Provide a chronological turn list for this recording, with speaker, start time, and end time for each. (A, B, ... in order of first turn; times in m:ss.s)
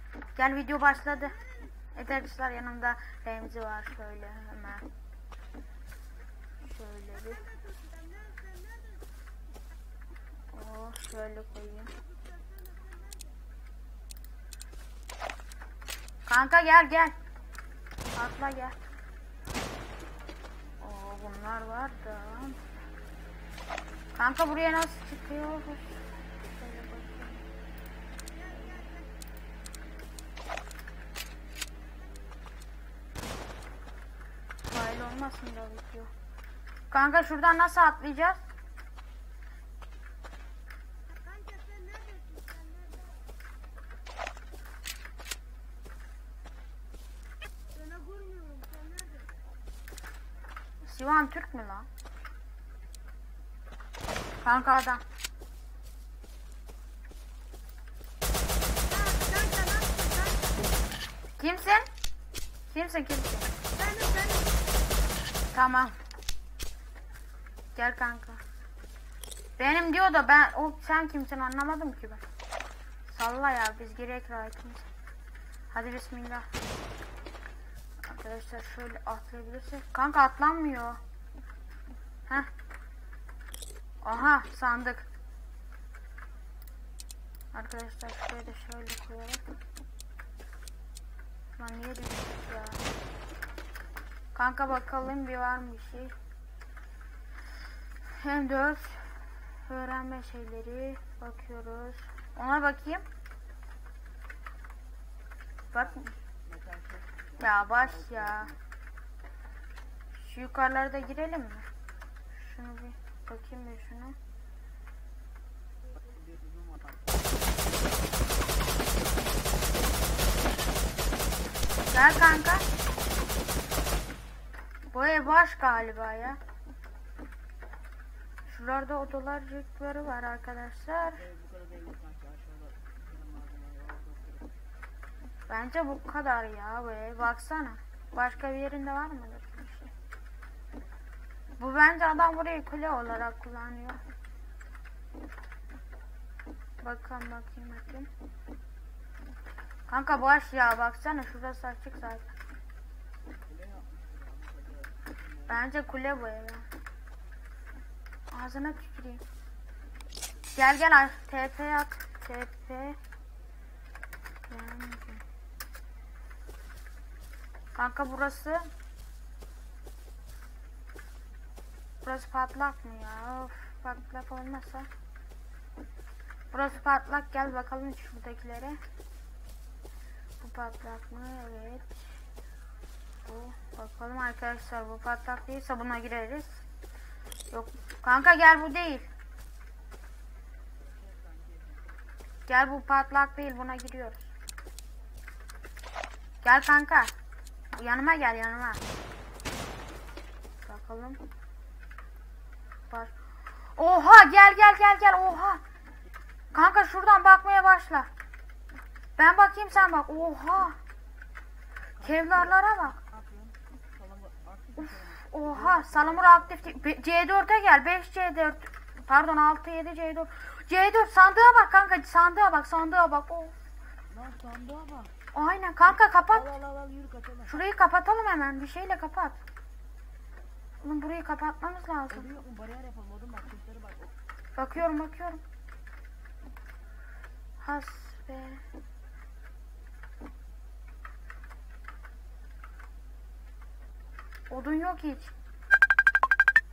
0:00.4-0:01.4 A
0:01.9-0:04.8 A
0:06.6-0:07.5 A
0:07.8-0:08.9 B
0:10.5-0:12.0 A
0:12.4-0:13.1 B
0:16.3-0:17.2 A
0:18.1-0:18.8 A
0:20.8-0:22.8 A
0:24.1-0:27.4 A
0:28.5-0:28.9 A
0:34.6-0:36.1 A
0:36.9-0:38.4 A
0:41.1-0:43.1 B
0:47.8-0:49.3 B
0:50.8-0:51.9 A
0:54.4-0:55.0 A
0:58.9-1:00.6 B
1:01.4-1:01.9 A
1:02.7-1:03.6 A
1:03.8-1:04.5 B
1:05.5-1:06.0 A
1:07.7-1:08.4 A
1:09.6-1:12.2 A
1:13.1-1:14.9 A
1:15.7-1:16.5 A
1:18.0-1:21.0 A
1:24.0-1:25.0 A
1:27.5-1:29.4 A
1:31.6-1:32.8 A
1:34.3-1:36.1 A
1:38.0-1:43.0 A
1:45.7-1:48.6 C
1:45.7-1:46.1 A
1:47.4-1:48.5 A
1:50.1-1:51.7 A
1:52.3-1:54.2 A
1:55.9-1:57.2 C
2:01.9-2:02.7 A
2:04.9-2:06.4 A
2:08.5-2:11.2 A
2:11.1-2:14.5 C
2:15.5-2:19.9 A
2:21.6-2:24.0 A
2:26.8-2:28.1 A
2:29.9-2:32.3 A
2:33.4-2:35.6 C
2:35.5-2:36.7 A
2:38.3-2:39.2 A
2:40.5-2:43.0 A
2:44.5-2:45.2 A
2:47.7-2:48.7 A
2:52.0-2:54.9 A
2:56.5-2:58.8 A
3:00.4-3:02.2 A
3:03.2-3:06.6 A
3:07.5-3:09.1 A
3:10.8-3:11.8 C
3:12.5-3:14.3 A
3:16.4-3:17.1 A
3:17.7-3:18.8 A
3:20.6-3:21.2 A
3:23.7-3:25.6 A
3:26.5-3:28.1 A
3:29.2-3:30.8 A
3:32.0-3:33.0 A
3:32.0-3:36.6 C
3:34.8-3:43.5 A
3:44.1-3:45.1 C
3:45.3-3:46.5 A
3:46.3-3:47.6 C
3:47.5-3:49.4 A
3:50.8-3:52.3 A
3:52.1-3:54.1 C
3:54.6-3:55.4 A
3:57.6-3:58.6 A
4:04.5-4:05.3 A